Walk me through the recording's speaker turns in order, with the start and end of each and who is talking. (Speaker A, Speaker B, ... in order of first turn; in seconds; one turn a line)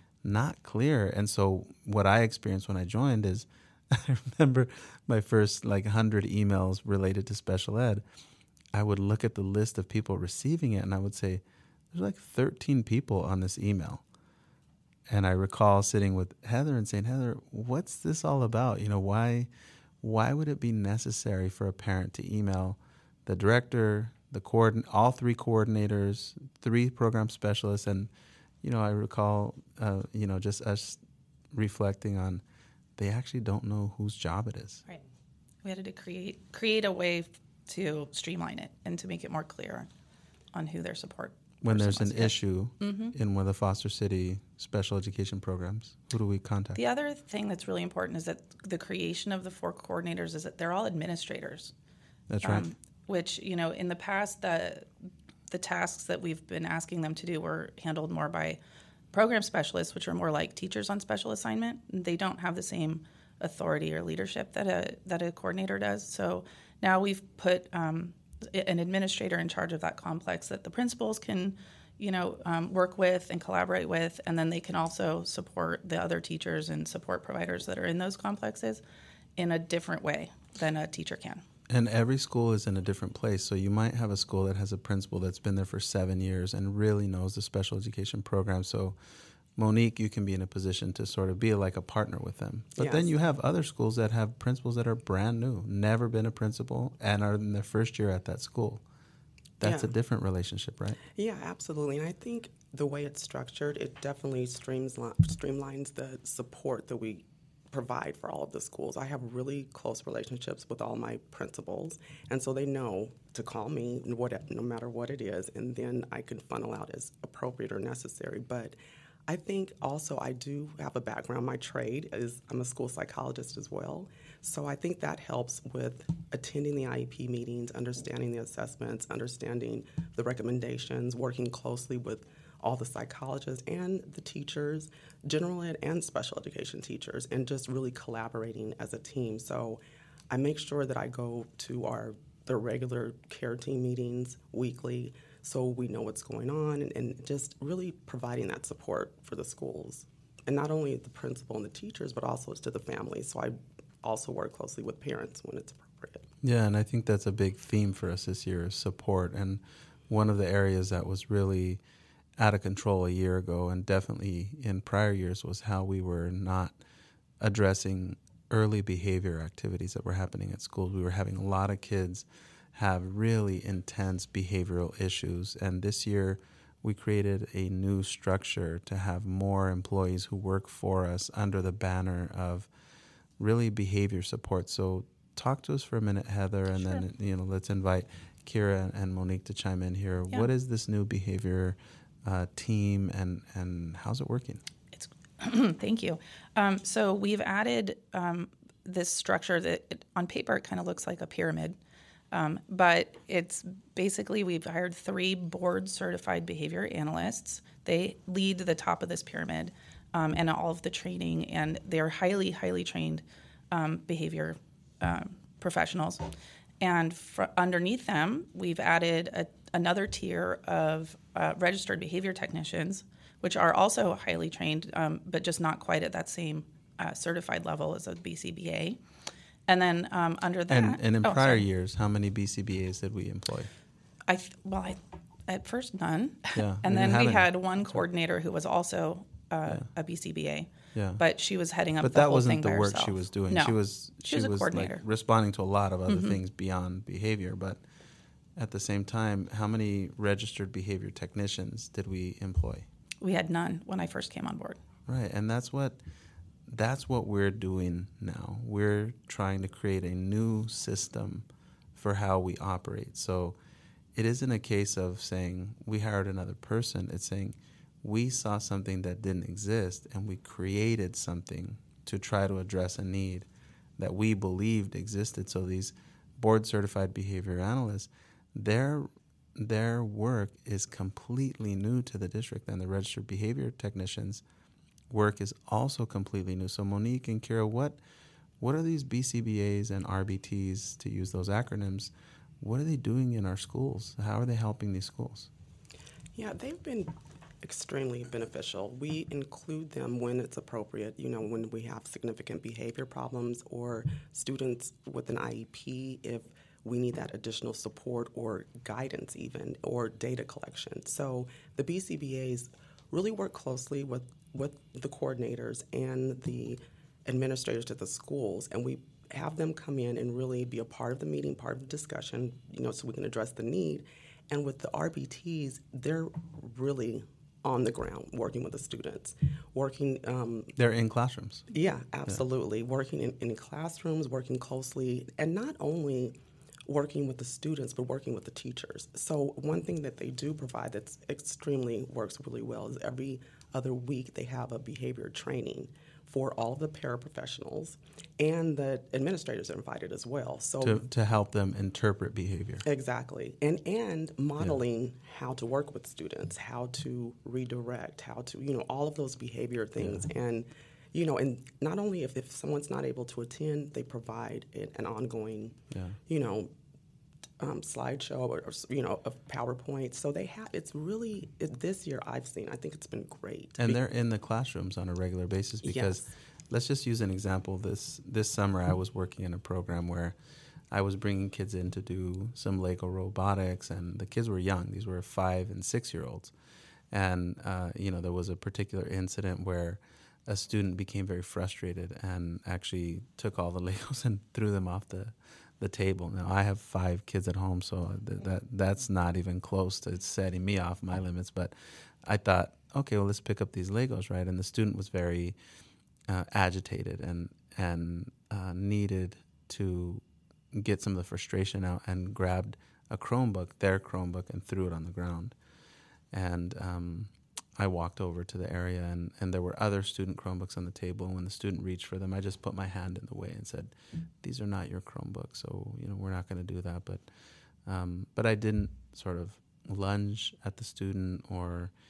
Speaker A: 0.2-8.0
Speaker A: 8.7-14.0
Speaker A: 15.1-19.5
Speaker A: 20.0-28.1
Speaker A: 28.6-31.0
Speaker A: 31.5-32.4
Speaker A: 33.0-34.8
Speaker B: 35.6-39.9
Speaker B: 40.5-43.1
Speaker A: 41.6-46.8
Speaker B: 46.8-51.7
Speaker A: 52.3-52.7
Speaker B: 52.4-54.9
Speaker B: 55.5-58.6
Speaker B: 59.1-78.8
Speaker B: 79.4-81.4
Speaker A: 81.7-89.0
Speaker A: 89.5-98.8
Speaker C: 92.8-93.1
Speaker A: 99.6-101.0
Speaker C: 99.6-99.9
Speaker C: 101.1-156.3
Speaker A: 156.4-161.8
Speaker A: 162.4-166.8
Speaker A: 167.4-182.7
Speaker A: 183.4-194.6
Speaker B: 194.9-201.8
Speaker B: 202.3-216.2
Speaker B: 216.8-229.0
Speaker B: 229.7-231.6
Speaker A: 230.7-233.7
Speaker B: 234.3-245.0
Speaker A: 236.5-237.5
Speaker A: 240.9-241.2
Speaker A: 242.0-247.8
Speaker B: 246.1-246.4
Speaker A: 248.6-252.9
Speaker B: 253.2-254.8
Speaker A: 255.1-256.0
Speaker A: 256.7-263.6
Speaker A: 264.1-284.4
Speaker A: 285.1-288.0
Speaker A: 288.6-295.5
Speaker C: 296.3-330.7
Speaker A: 330.8-331.7
Speaker C: 331.7-336.4
Speaker C: 336.9-351.0
Speaker A: 350.8-352.8
Speaker C: 352.8-366.7
Speaker A: 360.0-360.2
Speaker A: 365.9-366.2
Speaker C: 367.6-374.0
Speaker A: 373.8-380.3
Speaker C: 375.8-376.3
Speaker A: 380.9-386.5
Speaker A: 387.1-405.6
Speaker A: 406.3-415.5
Speaker A: 416.3-427.2
Speaker A: 427.8-431.9